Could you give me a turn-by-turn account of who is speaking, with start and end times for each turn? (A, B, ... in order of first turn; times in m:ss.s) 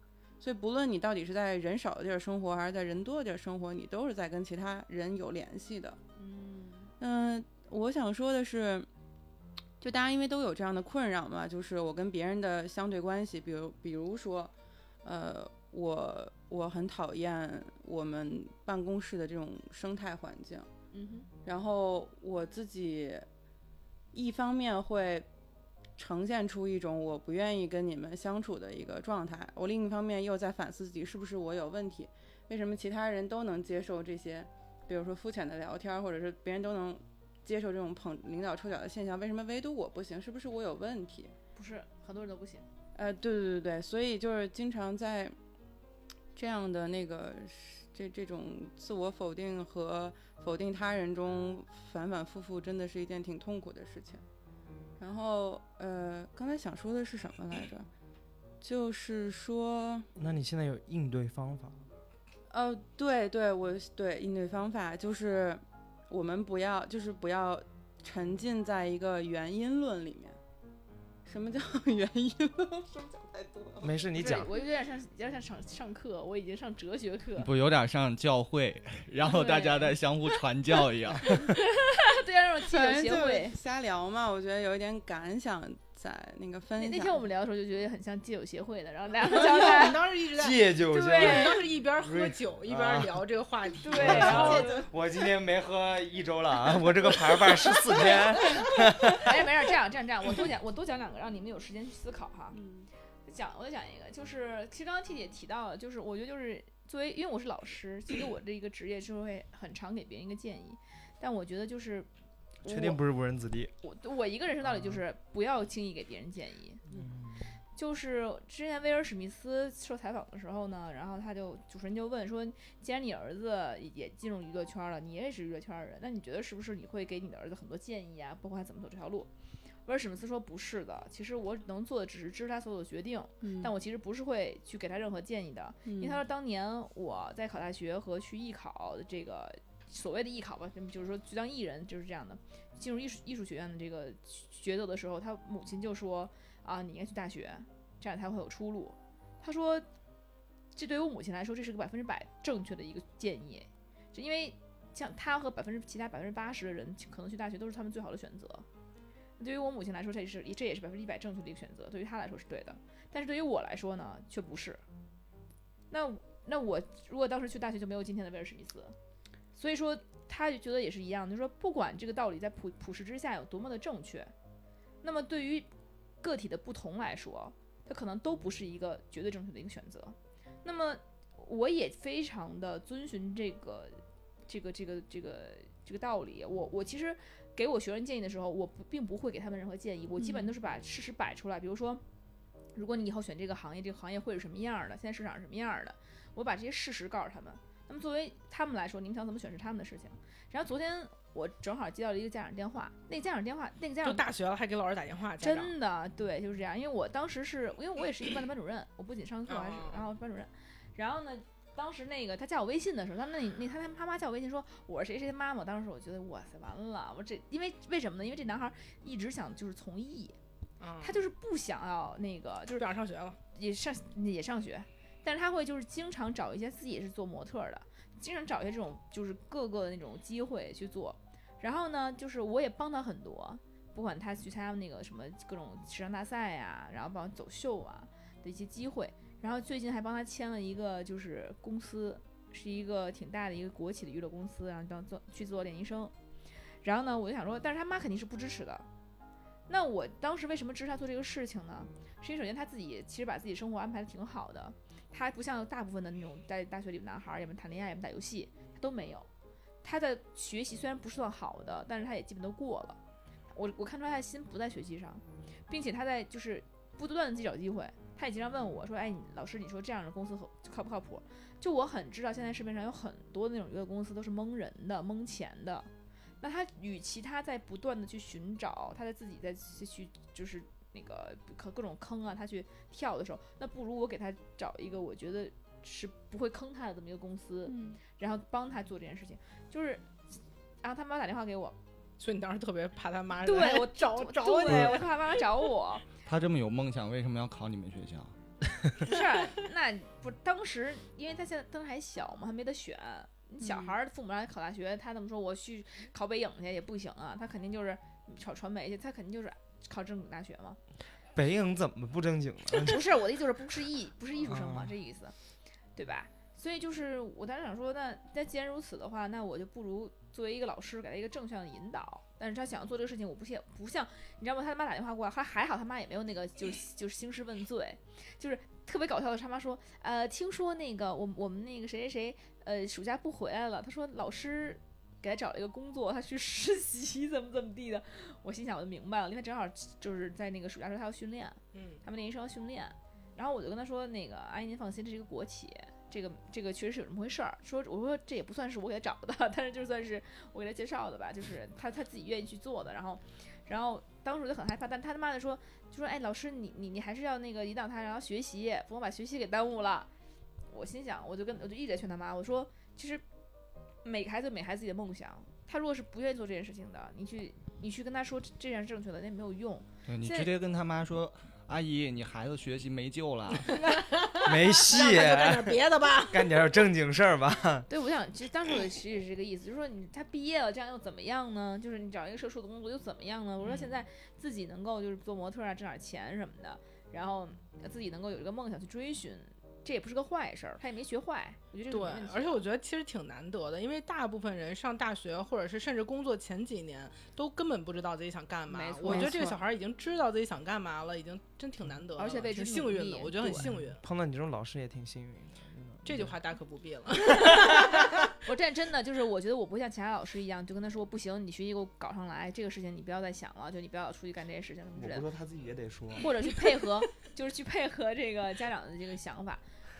0:00.4-0:06.0 A
0:06.2-0:06.9 B
0:07.0-0:08.9 A
0:09.8-0:14.5 A
0:15.0-0:20.7 A
0:20.9-0:21.3 B
0:21.4-0:23.2 A
0:24.1-0:25.3 A
0:26.0-0:41.3 A
0:41.5-0:42.6 B
0:42.9-0:45.3 A
0:46.3-0:54.2 A
0:55.0-0:57.9 A
0:58.6-1:00.1 A
1:00.2-1:01.8 C
1:02.5-1:10.4 A
1:11.2-1:13.9 A
1:13.8-1:14.5 C
1:14.1-1:17.5 B
1:17.4-1:21.3 D
1:19.2-1:20.0 B
1:21.4-1:23.5 B
1:22.7-1:27.2 A
1:26.8-1:30.1 B
1:29.2-1:34.8 E
1:30.3-1:33.2 C
1:30.9-1:31.6 B
1:33.8-1:34.9 B
1:33.8-1:39.5 C
1:38.0-1:42.6 B
1:42.5-1:42.9 A
1:43.2-1:52.1 B
1:52.6-1:53.0 B
1:52.6-1:53.7 C
1:53.8-1:56.8 B
1:54.6-1:55.0 C
1:56.9-1:57.6 C
1:57.7-2:09.3 B
2:09.8-2:29.8 B
2:13.4-2:13.7 A
2:15.8-2:16.2 A
2:30.7-2:38.6 B
2:39.4-2:44.8 B
2:45.9-2:48.9 B
2:49.5-2:54.3 B
2:55.0-2:55.7 B
2:56.2-3:12.0 B
3:10.2-3:10.5 A
3:12.7-3:24.2 B
3:24.0-3:25.7 E
3:25.4-3:40.4 B
3:29.5-3:30.0 E
3:40.8-3:41.2 E
3:41.0-3:42.9 B
3:42.8-3:43.4 E
3:43.5-4:06.1 B
4:06.8-4:08.9 B
4:09.7-4:19.3 B
4:19.8-4:23.0 B
4:23.5-4:35.9 B
4:36.4-4:50.0 B
4:47.6-4:48.0 A
4:50.8-4:51.8 B
4:52.2-4:55.4 E
4:53.4-4:56.0 B
4:54.7-4:55.0 D
4:56.2-4:58.3 D
4:59.0-5:10.8 B
5:03.6-5:03.9 A
5:11.3-5:13.1 C
5:12.7-5:15.3 B
5:14.4-5:14.9 C
5:16.0-6:00.1 B
5:41.7-5:42.0 E
6:00.7-6:03.2 B
6:04.0-6:10.5 B
6:10.1-6:13.8 D
6:13.7-6:16.7 E
6:14.4-6:17.9 C
6:17.9-6:32.6 B
6:23.6-6:23.9 E
6:31.9-6:44.0 E
6:38.7-6:39.5 B
6:39.0-6:39.6 A
6:42.2-6:43.7 B
6:43.5-6:46.3 C
6:46.0-6:48.3 E
6:47.4-6:47.8 B
6:47.4-6:47.9 C
6:48.4-6:55.3 B
6:55.0-6:56.3 C
6:56.2-6:59.6 B